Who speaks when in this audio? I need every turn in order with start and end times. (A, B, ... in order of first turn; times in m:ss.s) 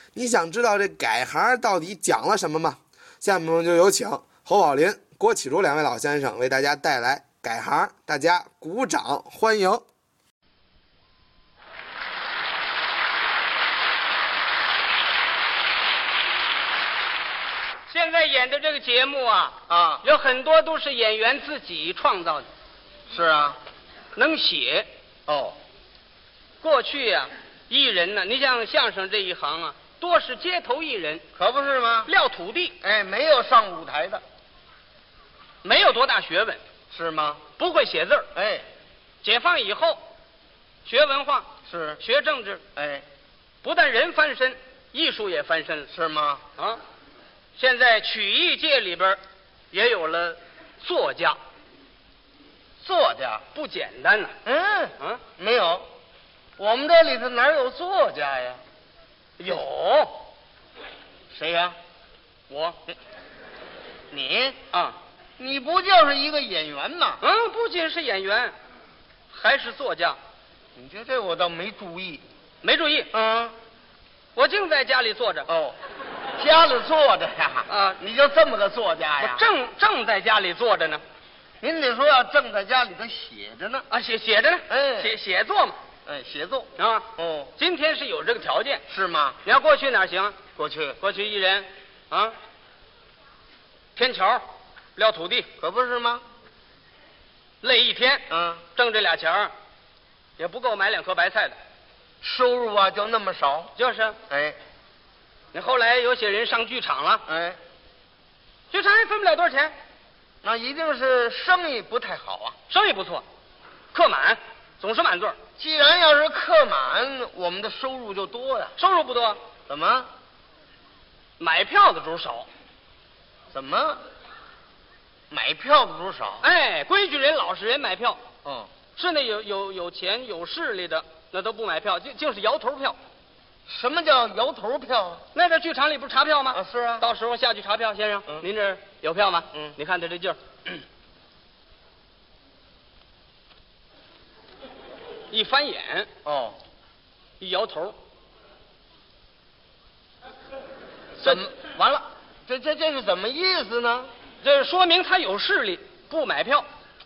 0:00.2-0:09.8 A
0:17.9-0:22.5 B
0:19.7-0:20.0 C
0:23.1-0:23.6 C
0:24.2-0:24.9 B
0:25.3-0:25.6 C
0:26.6-0:31.2 B
0:31.4-0:32.1 C
0:32.1-0:32.8 B
0:32.8-0:34.2 C
0:35.6-0:36.6 B
0:36.9-0:37.4 C
0:37.6-0:38.3 B
0:38.4-0:38.7 C
0:39.2-0:40.0 B
0:40.8-0:42.6 B
0:41.7-0:42.0 C
0:42.8-0:43.0 C
0:43.6-0:45.9 B
0:45.9-0:46.4 C
0:47.6-0:49.2 B
0:49.7-0:51.4 B
0:52.8-0:53.4 C
0:53.5-0:54.4 B
0:54.4-0:55.9 C
0:56.6-0:58.6 C
0:59.4-1:00.2 B
1:01.3-1:01.8 C
1:02.5-1:02.8 B
1:04.1-1:04.6 C
1:04.7-1:05.0 B
1:05.4-1:07.2 C
1:07.2-1:08.5 B
1:09.3-1:10.2 B
1:10.8-1:12.2 C
1:12.6-1:13.1 B
1:13.1-1:13.6 C
1:14.4-1:15.5 B
1:15.5-1:15.8 C
1:16.4-1:19.5 C
1:17.7-1:18.0 B
1:19.2-1:21.0 B
1:21.6-1:23.9 C
1:23.9-1:25.8 B
1:24.7-1:25.1 C
1:26.1-1:27.5 C
1:26.8-1:28.8 B
1:28.9-1:29.4 C
1:29.4-1:30.4 B
1:30.6-1:31.0 C
1:31.0-1:32.4 B
1:34.0-1:34.4 B
1:35.0-1:35.5 B
1:35.6-1:36.2 C
1:37.6-1:39.5 B
1:38.3-1:38.6 C
1:40.4-1:41.6 B
1:42.2-1:43.7 C
1:43.8-1:44.2 B
1:44.3-1:44.6 C
1:45.5-1:47.2 B
1:47.3-1:47.6 C
1:48.7-1:49.8 B
1:50.4-1:52.6 C
1:52.7-1:53.2 B
1:53.9-1:55.4 B
1:55.6-1:58.8 C
1:58.8-1:59.4 B
1:59.7-2:00.1 C
2:01.4-2:02.5 B
2:03.5-2:04.0 C
2:05.3-2:06.4 C
2:06.4-2:08.2 B
2:08.4-2:08.7 C
2:09.0-2:13.0 B
2:13.7-2:15.2 C
2:15.3-2:20.8 B
2:16.5-2:17.1 C
2:25.3-2:26.1 B
2:26.2-2:26.6 C
2:27.4-2:28.0 B
2:31.2-2:32.0 B
2:31.2-2:31.5 C
2:32.5-2:34.1 C
2:34.4-2:36.7 B